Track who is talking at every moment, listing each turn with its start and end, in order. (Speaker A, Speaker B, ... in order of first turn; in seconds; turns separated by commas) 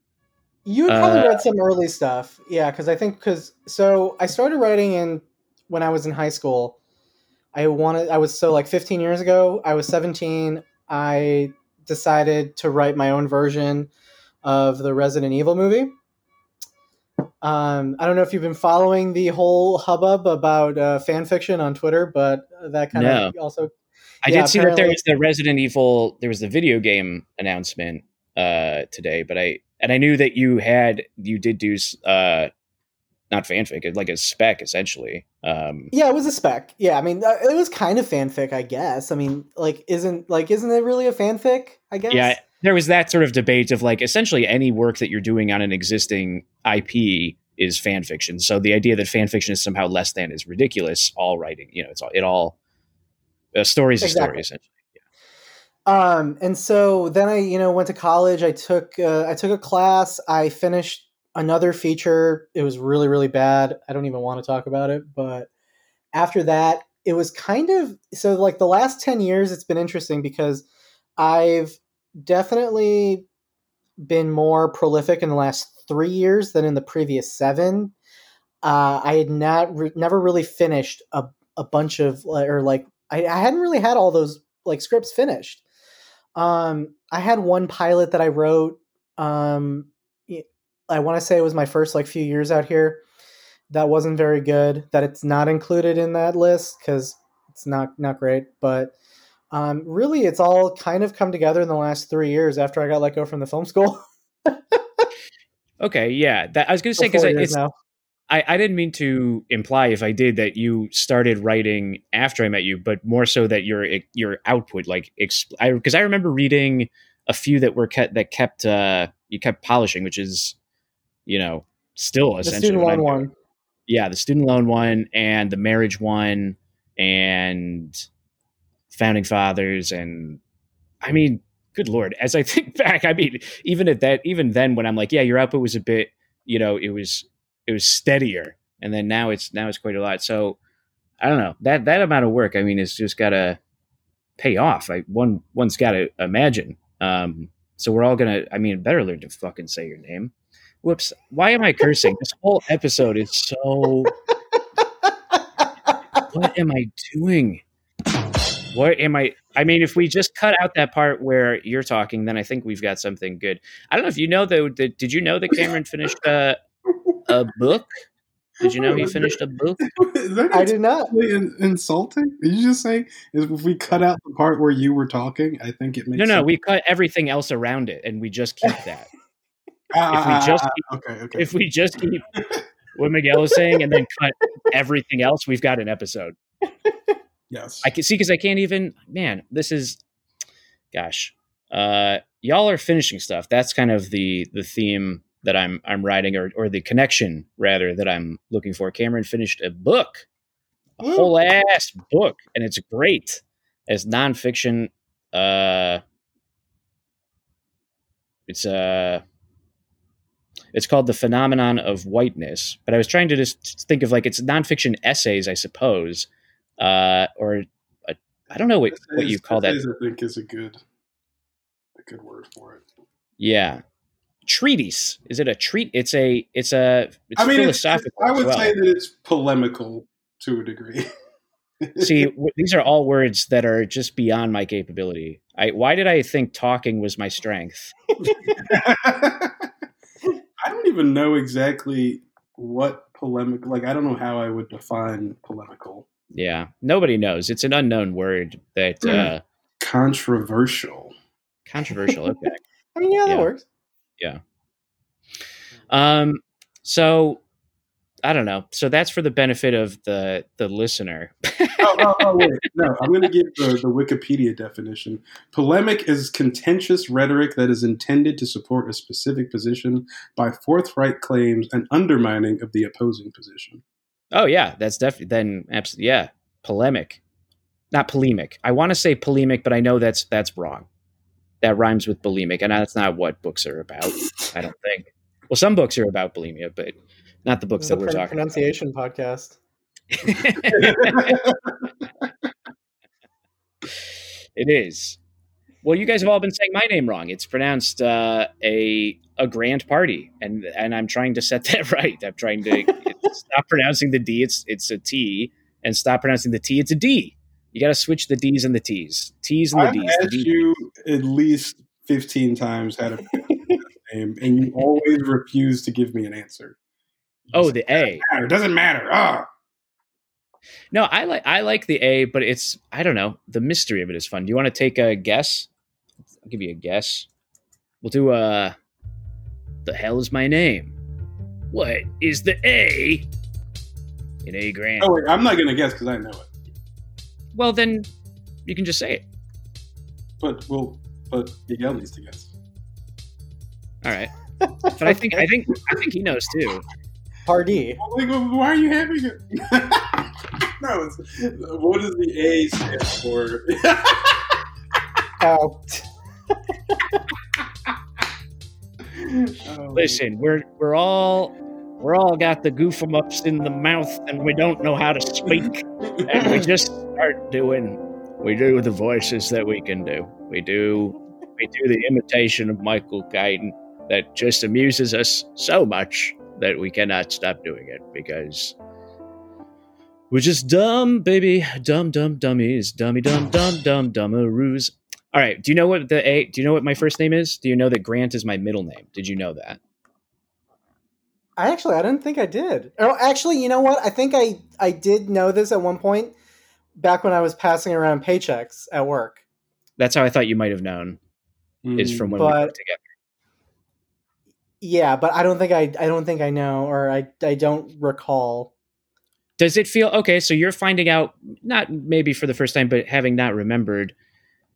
Speaker A: 0.7-6.8, Speaker B: 0.9-1.4, Speaker A: 7.5-13.9, Speaker A: 14.4-15.9, Speaker A: 17.4-23.7, Speaker B: 22.9-23.4, Speaker B: 24.2-32.5, Speaker A: 24.3-25.0, Speaker B: 33.3-35.9, Speaker A: 35.9-42.4, Speaker B: 42.1-52.6, Speaker B: 53.5-54.7, Speaker A: 54.0-54.4, Speaker A: 55.9-65.5, Speaker A: 66.1-70.7, Speaker A: 71.2-73.2, Speaker A: 74.1-77.9, Speaker A: 78.6-85.6, Speaker A: 86.4-93.0, Speaker A: 93.7-98.9, Speaker A: 99.5-105.0, Speaker B: 105.8-107.6, Speaker A: 107.0-107.7, Speaker B: 108.3-120.6, Speaker B: 121.3-123.3, Speaker A: 122.4-123.3, Speaker B: 123.9-128.1, Speaker B: 128.9-130.4, Speaker B: 131.0-140.6, Speaker B: 141.2-143.6, Speaker B: 144.4-150.3, Speaker B: 150.8-154.2, Speaker B: 156.3-157.6, Speaker B: 158.7-166.6, Speaker B: 167.3-167.9, Speaker B: 168.6-169.8, Speaker C: 168.6-176.5, Speaker A: 170.5-171.1, Speaker B: 176.2-179.1, Speaker C: 179.9-181.5, Speaker B: 180.1-180.8, Speaker B: 181.4-182.3, Speaker C: 182.3-182.6, Speaker B: 182.9-186.3, Speaker C: 187.5-187.9, Speaker B: 187.8-190.0, Speaker B: 190.9-200.3, Speaker B: 201.0-206.0, Speaker B: 208.5-209.2, Speaker B: 210.7-216.3, Speaker B: 216.8-219.8, Speaker C: 218.9-220.8, Speaker C: 221.9-222.8, Speaker B: 223.4-223.8, Speaker B: 224.5-228.7, Speaker C: 227.4-231.1, Speaker C: 231.8-232.3, Speaker B: 232.0-237.9, Speaker A: 238.2-238.6, Speaker C: 238.4-239.7, Speaker C: 240.6-246.1, Speaker B: 246.3-249.4, Speaker C: 249.8-251.1, Speaker B: 251.7-252.6, Speaker A: 253.0-253.7, Speaker B: 255.9-257.4, Speaker B: 258.2-262.5, Speaker C: 261.8-273.8, Speaker B: 274.3-277.2, Speaker B: 277.9-280.9, Speaker B: 281.6-288.3, Speaker A: 287.8-289.6, Speaker B: 290.1-291.4, Speaker C: 290.7-291.8, Speaker B: 294.6-295.2, Speaker B: 295.8-310.7, Speaker C: 309.7-316.8, Speaker A: 313.5-313.8, Speaker C: 317.5-319.5, Speaker B: 317.5-318.2, Speaker B: 320.9-325.7, Speaker B: 326.5-327.3, Speaker B: 328.0-328.8, Speaker B: 329.9-330.9, Speaker B: 331.7-333.3, Speaker B: 334.4-335.1, Speaker C: 335.0-336.5, Speaker B: 337.6-338.1, Speaker B: 338.7-339.2, Speaker C: 340.4-342.5, Speaker B: 344.0-344.3, Speaker A: 344.6-345.4, Speaker B: 345.0-346.9, Speaker A: 347.5-348.0, Speaker C: 348.0-354.6, Speaker A: 355.4-356.1, Speaker C: 359.2-360.2, Speaker B: 359.9-378.8, Speaker C: 366.1-366.5, Speaker B: 380.3-389.8, Speaker A: 391.6-396.3, Speaker A: 397.0-399.4, Speaker B: 400.0-401.2, Speaker C: 401.8-402.4, Speaker B: 402.0-403.0, Speaker A: 402.4-402.8, Speaker A: 404.8-408.7, Speaker B: 409.6-414.1